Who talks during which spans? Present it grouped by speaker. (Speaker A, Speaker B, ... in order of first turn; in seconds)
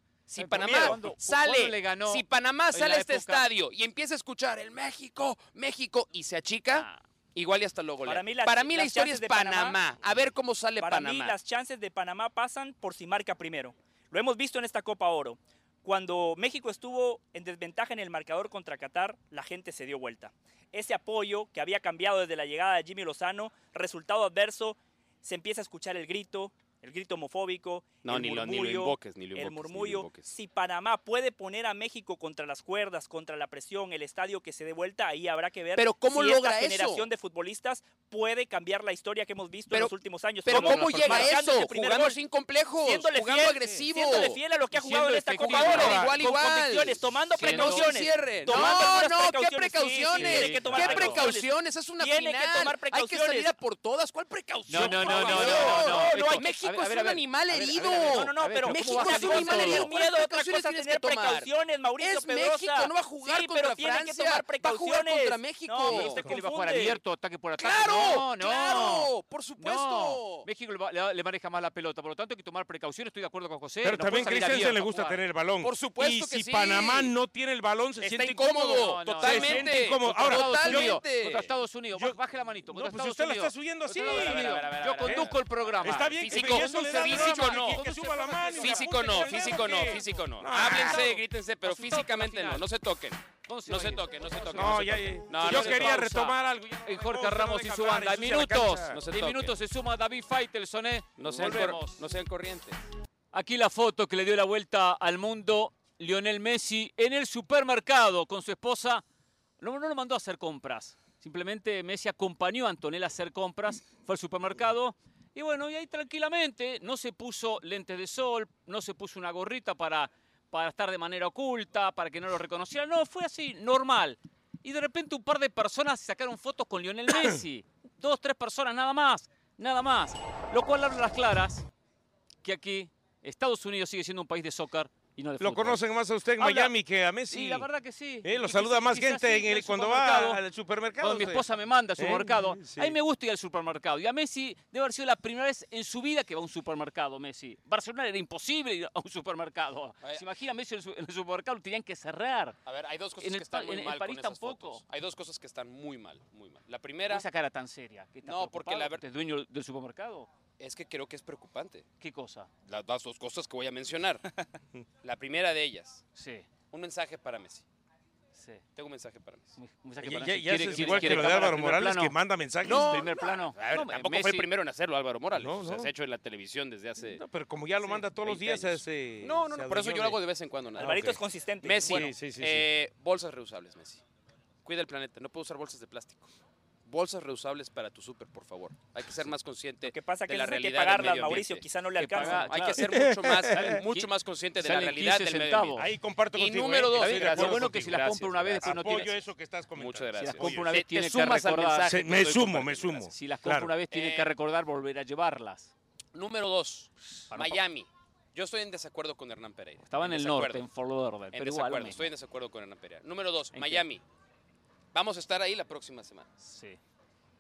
Speaker A: 0.3-3.5, 6.7-7.0, 40.5-41.4, 43.6-43.9, 44.7-46.1, 47.4-47.9, 48.5-48.9, 50.1-51.3, 54.7-59.9, 65.9-75.2, 78.7-92.7, 93.5-102.0, 103.3-109.0, 109.6-131.7, 132.4-135.8, 136.4-136.7, 137.3-140.4, 141.0-152.6, 153.2-154.8, 157.1-160.3, 162.0-162.5, 166.2-166.5, 168.3-168.6, 169.6-174.5, 192.0-192.9, 193.5-195.9, 196.9-199.2, 200.2-201.9, 203.1-205.7, 207.3-207.6, 209.9-212.1, 213.5-213.9, 216.4-216.8
Speaker B: 0.3-11.4, 28.0-30.3, 35.8-37.1, 40.5-44.4, 45.4-66.2, 67.6-70.5, 75.6-77.1, 78.0-81.5, 83.9-87.8, 88.6-96.1, 98.9-99.6, 101.2-102.8, 152.7-157.3, 158.2-159.0, 160.6-161.8, 162.7-164.2, 165.0-166.0, 166.7-167.6, 168.8-171.5, 172.6-177.2, 177.8-184.0, 184.6-186.3, 186.9-199.2, 199.8-203.1, 203.9-204.3, 206.1-210.7, 211.3-214.0, 214.9-216.3
Speaker C: 0.7-1.0, 45.7-46.1, 73.8-81.0, 81.9-82.2, 82.7-91.1, 94.5-99.0, 135.4-137.7, 138.2-141.5, 142.0-143.0, 170.0-173.0, 175.3-175.9, 177.1-180.2, 180.8-181.2, 181.7-182.7, 192.8-193.8, 195.8-198.0, 198.6-200.8, 201.9-203.7
Speaker D: 8.1-9.8, 10.8-42.2, 42.9-53.5, 54.8-56.5, 57.8-67.0, 180.8-182.1, 189.8-192.7